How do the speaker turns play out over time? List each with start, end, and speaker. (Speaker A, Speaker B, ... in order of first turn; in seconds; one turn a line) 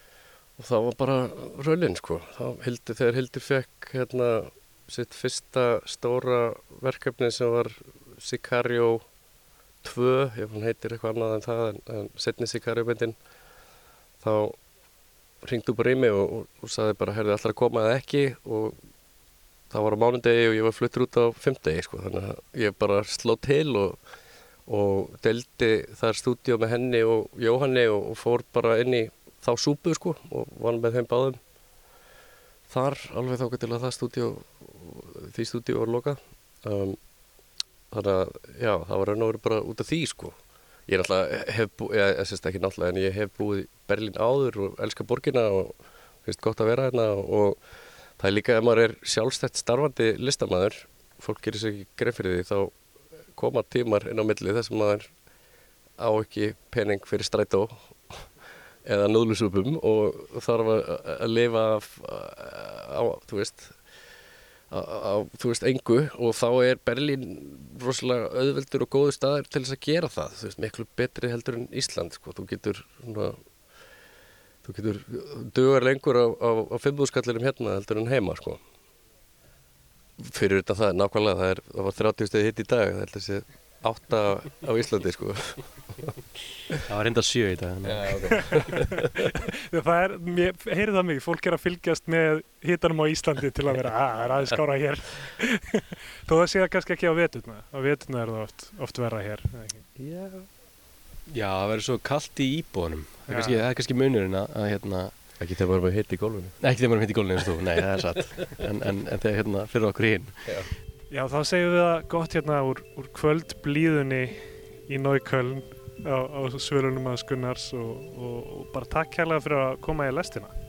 Speaker A: 0.6-9.1
Speaker A: 9.8-13.2
Speaker A: 14.2-14.6
Speaker A: 15.4-18.8
Speaker A: 19.7-24.0
Speaker A: 24.6-31.4
Speaker A: 32.7-37.0
Speaker A: 37.9-47.6
Speaker A: 48.1-52.8
Speaker A: 53.3-55.1
Speaker A: 56.0-58.3
Speaker A: 58.8-63.8
Speaker A: 64.7-73.5
Speaker A: 74.6-78.6
Speaker A: 80.2-86.1
Speaker B: 86.9-88.7
Speaker A: 87.8-88.7
Speaker C: 89.7-99.8
Speaker A: 100.0-100.5
Speaker B: 101.3-105.2
Speaker C: 103.3-103.7
Speaker A: 105.4-106.6
Speaker B: 106.6-110.6
Speaker A: 110.4-110.7
Speaker C: 111.1-120.5